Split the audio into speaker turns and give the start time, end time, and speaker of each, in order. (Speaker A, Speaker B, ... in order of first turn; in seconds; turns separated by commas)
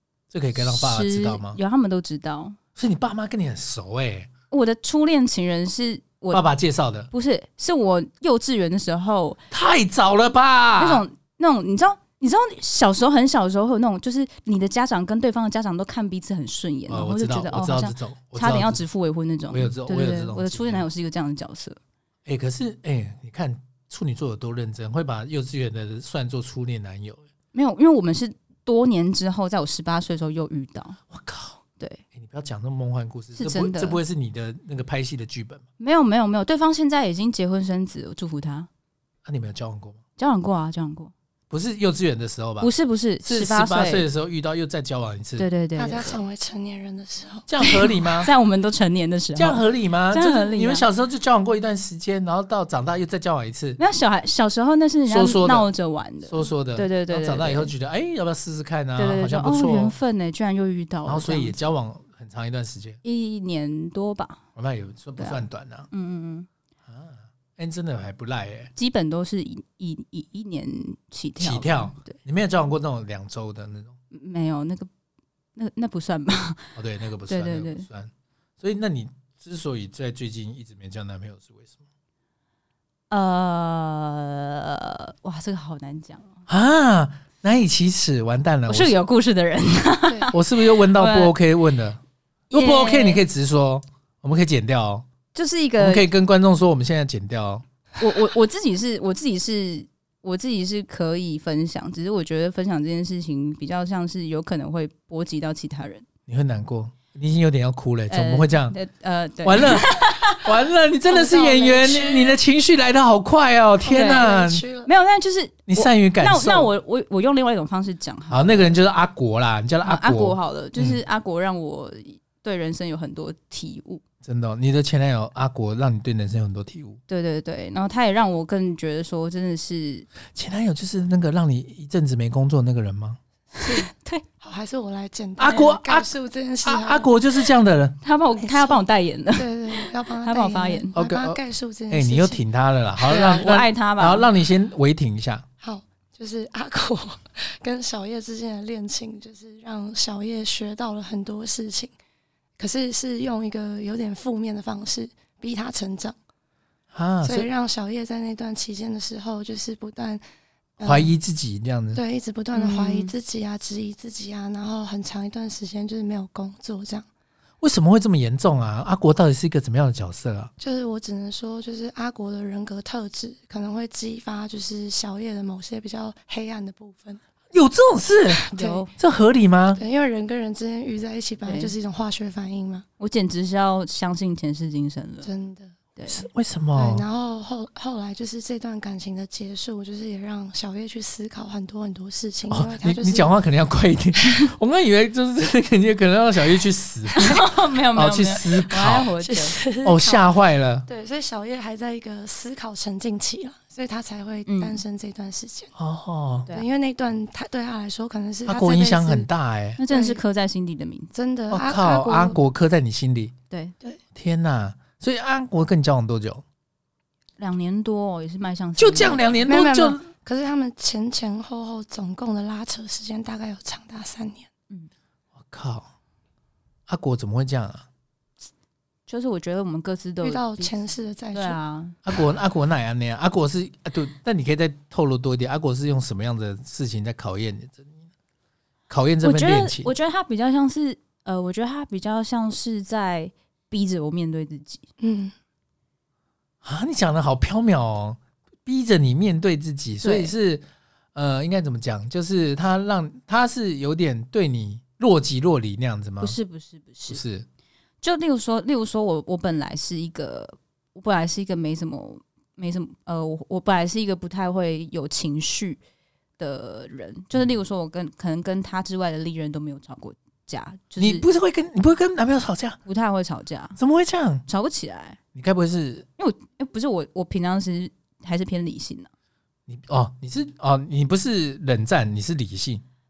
Speaker A: 0.3-1.6, Speaker B: 0.6-2.6, Speaker A: 2.8-4.3, Speaker B: 4.5-6.5, Speaker A: 6.3-7.1, Speaker B: 7.1-9.4, Speaker A: 9.5-11.0, Speaker B: 10.8-21.8, Speaker A: 16.9-18.8, Speaker A: 19.5-20.8, Speaker A: 22.3-27.3, Speaker B: 27.5-31.0, Speaker A: 31.1-31.6, Speaker B: 31.8-32.0, Speaker A: 32.1-35.6, Speaker B: 33.4-34.0, Speaker B: 35.8-38.7, Speaker A: 39.2-40.0, Speaker B: 40.2-41.1, Speaker A: 41.5-42.7, Speaker B: 42.6-44.1, Speaker A: 43.2-45.5, Speaker B: 45.4-46.2, Speaker C: 45.8-47.5, Speaker A: 47.5-48.3, Speaker B: 47.6-50.9, Speaker A: 49.4-53.8, Speaker B: 53.8-57.7, Speaker A: 55.1-55.7, Speaker A: 56.3-59.9, Speaker B: 59.0-61.6, Speaker A: 61.1-63.0, Speaker B: 63.0-64.4, Speaker A: 64.6-65.9, Speaker B: 65.2-66.5, Speaker A: 66.9-68.7, Speaker B: 68.8-72.2, Speaker A: 71.4-74.0, Speaker B: 74.1-74.9, Speaker B: 75.5-76.8, Speaker A: 76.8-81.8, Speaker B: 77.3-77.9, Speaker B: 83.1-86.4, Speaker A: 86.5-89.0, Speaker B: 88.7-91.3, Speaker A: 90.3-95.1, Speaker B: 92.5-93.2, Speaker B: 95.3-96.1, Speaker A: 95.8-97.6, Speaker B: 98.0-106.0, Speaker A: 106.3-108.8, Speaker B: 108.1-110.5, Speaker A: 109.4-114.6, Speaker B: 111.1-112.1, Speaker C: 111.2-112.3, Speaker C: 113.8-114.9, Speaker B: 113.9-114.3, Speaker B: 114.8-118.8, Speaker A: 115.7-116.7, Speaker A: 118.3-121.0, Speaker B: 119.8-124.0, Speaker A: 124.2-127.0, Speaker B: 127.1-130.1, Speaker A: 130.3-133.2, Speaker B: 133.6-134.2, Speaker C: 133.6-137.1, Speaker A: 135.4-136.1, Speaker A: 136.6-138.0, Speaker B: 138.0-140.9, Speaker C: 138.4-138.8, Speaker C: 139.3-142.4, Speaker A: 140.9-141.4, Speaker A: 141.9-145.4, Speaker B: 143.0-144.3, Speaker C: 145.6-151.9, Speaker C: 152.6-156.2, Speaker A: 156.9-157.5, Speaker C: 157.2-160.2, Speaker C: 160.8-161.1, Speaker A: 160.8-162.0, Speaker C: 161.9-167.1, Speaker B: 162.5-163.1, Speaker A: 167.6-170.5, Speaker C: 170.6-177.2, Speaker A: 177.5-179.8, Speaker C: 178.4-178.8, Speaker B: 178.5-178.9, Speaker C: 179.8-182.9, Speaker B: 181.4-181.7, Speaker B: 183.0-185.3, Speaker C: 185.2-185.8, Speaker B: 186.0-186.2, Speaker A: 186.1-187.1, Speaker C: 186.8-193.3, Speaker A: 192.5-199.1, Speaker B: 197.2-199.6, Speaker C: 199.2-200.3, Speaker A: 199.8-200.8, Speaker C: 200.9-205.7, Speaker B: 204.5-204.8, Speaker A: 205.8-206.5, Speaker C: 206.5-209.3, Speaker A: 208.5-209.8, Speaker B: 209.8-211.1, Speaker C: 209.9-210.2, Speaker C: 211.1-212.4, Speaker A: 211.5-213.3, Speaker A: 214.2-216.4, Speaker B: 217.4-219.5, Speaker A: 218.8-220.0, Speaker C: 219.5-224.5, Speaker A: 225.4-225.9, Speaker A: 226.9-227.9, Speaker B: 229.1-230.8, Speaker C: 230.2-231.6, Speaker B: 231.3-232.0, Speaker A: 232.1-237.9, Speaker A: 238.9-239.9, Speaker B: 239.2-244.8, Speaker C: 245.0-245.3, Speaker A: 246.6-250.6, Speaker B: 250.0-250.3, Speaker A: 251.2-256.4, Speaker B: 256.2-257.2, Speaker A: 257.1-257.5, Speaker B: 258.0-265.8, Speaker B: 266.4-271.3, Speaker A: 271.0-272.8, Speaker B: 272.9-273.8, Speaker A: 273.8-274.4, Speaker B: 274.5-275.2, Speaker A: 275.4-276.1, Speaker B: 276.2-279.1, Speaker A: 279.7-282.8